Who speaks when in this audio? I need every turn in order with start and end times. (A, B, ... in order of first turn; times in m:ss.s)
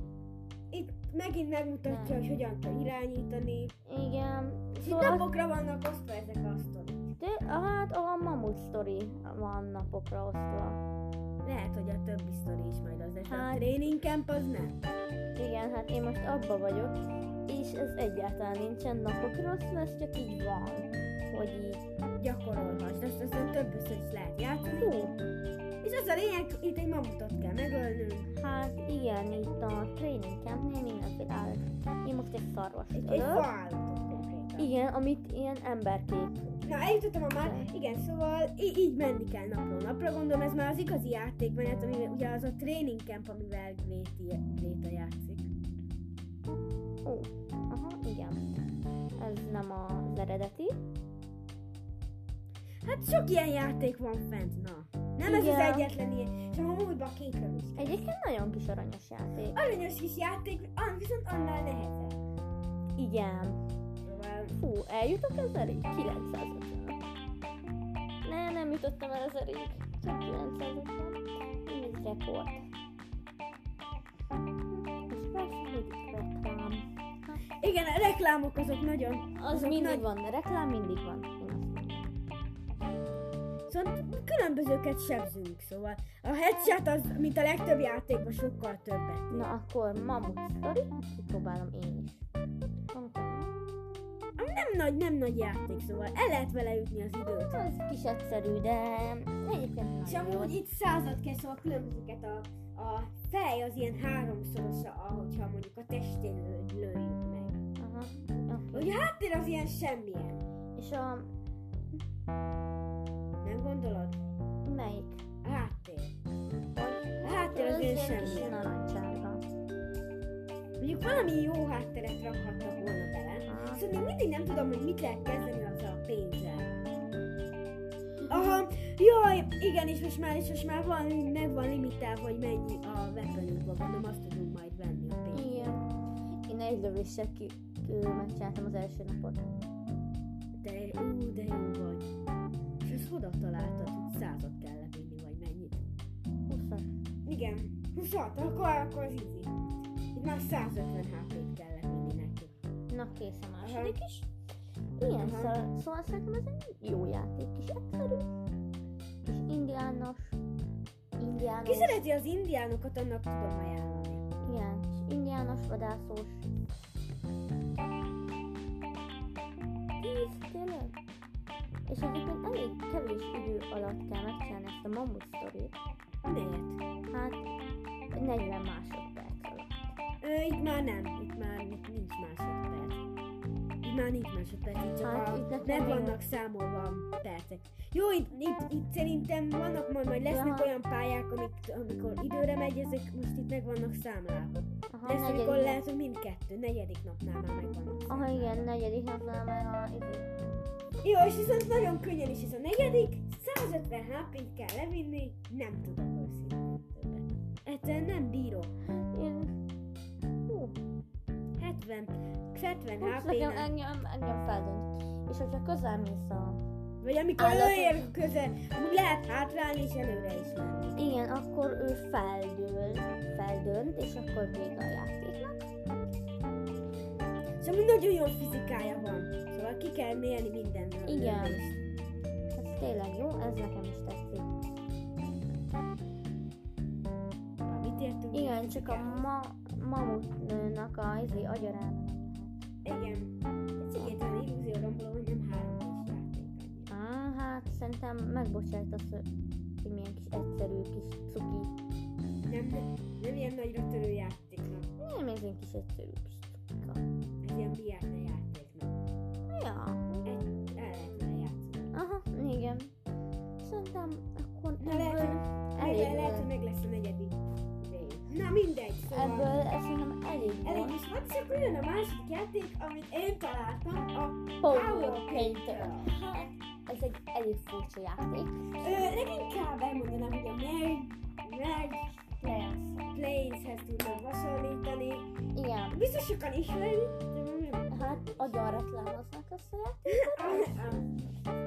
0:00.7-0:03.7 A
0:01.9-0:02.2 B
0:03.8-0:05.3 B
0:04.8-0:07.1 A
0:07.2-0:10.8 B
0:11.4-0:14.8 A
0:13.3-0:13.7 B
0:15.4-0:16.9 B
0:17.5-0:21.8 B
0:22.2-0:24.9 A
0:24.8-0:25.1 B
0:25.8-0:28.3 A
0:28.3-0:33.5 B
0:32.9-0:34.7 A
0:34.6-0:36.5 B
0:36.6-0:45.5 A
0:37.4-0:37.7 B
0:47.0-0:48.5 B
0:49.2-0:50.7 B
0:52.8-0:58.0 A
0:55.2-0:55.9 B
0:57.8-0:59.6 B
0:59.5-1:02.2 A
1:03.0-1:03.6 B
1:04.0-1:04.5 A
1:04.5-1:07.0 B
1:08.2-1:12.6 B
1:14.7-1:17.4 B
1:17.6-1:20.0 A
1:19.3-1:22.1 B
1:23.7-1:29.5 A
1:29.3-1:32.2 B
1:32.9-1:34.3 B
1:34.4-1:37.6 A
1:37.2-1:40.6 B
1:40.0-1:47.6 A
1:47.8-1:48.9 B
1:48.7-1:50.4 A
1:50.8-1:51.3 B
1:53.4-1:54.2 A
1:54.6-1:55.2 B
1:55.4-1:56.1 A
1:56.7-1:59.4 B
1:57.2-1:58.7 A
2:00.8-2:06.8 A
2:03.5-2:03.8 B
2:08.2-2:08.6 B
2:08.3-2:15.8 A
2:15.3-2:15.8 B
2:16.4-2:19.4 B
2:20.6-2:22.1 A
2:22.8-2:25.8 A
2:26.5-2:26.9 B
2:27.2-2:29.5 A
2:30.1-2:32.5 A
2:32.9-2:34.3 B
2:33.6-2:34.0 A
2:35.0-2:38.2 B
2:35.2-2:35.6 A
2:39.2-2:40.4 B
2:41.2-2:42.0 B
2:41.6-2:44.2 A
2:44.4-2:46.5 B
2:50.0-2:50.9 B
2:51.9-2:55.8 B
2:56.2-2:56.8 A
2:57.1-2:57.4 B
2:58.1-2:59.9 B
3:00.2-3:03.0 A
3:03.8-3:18.7 A
3:05.0-3:06.2 B
3:10.3-3:10.7 B
3:14.9-3:15.8 B
3:18.1-3:20.3 B
3:21.0-3:28.7 A
3:28.8-3:29.5 B
3:30.5-3:30.8 B
3:31.6-3:33.7 A
3:33.0-3:36.6 B
3:37.0-3:41.0 A
3:37.4-3:38.1 B
3:41.0-3:45.7 B
3:47.6-3:51.8 A
3:51.0-3:51.6 B
3:52.5-3:54.5 B
3:57.6-3:59.3 A
3:58.3-4:02.6 B
4:02.8-4:06.9 A
4:06.9-4:09.2 B
4:09.8-4:11.7 B
4:12.4-4:14.9 A
4:15.0-4:17.0 B
4:17.4-4:18.9 A
4:19.5-4:20.4 B
4:20.2-4:21.9 A
4:21.9-4:22.9 B
4:23.6-4:26.5 B
4:24.8-4:29.5 A
4:29.1-4:31.0 B
4:30.6-4:36.1 A
4:34.6-4:39.1 B
4:38.8-4:42.2 A
4:42.4-4:43.0 B
4:43.1-4:45.2 A
4:45.5-4:46.0 B
4:45.9-4:48.6 A
4:47.9-4:51.3 B
4:50.1-4:51.0 A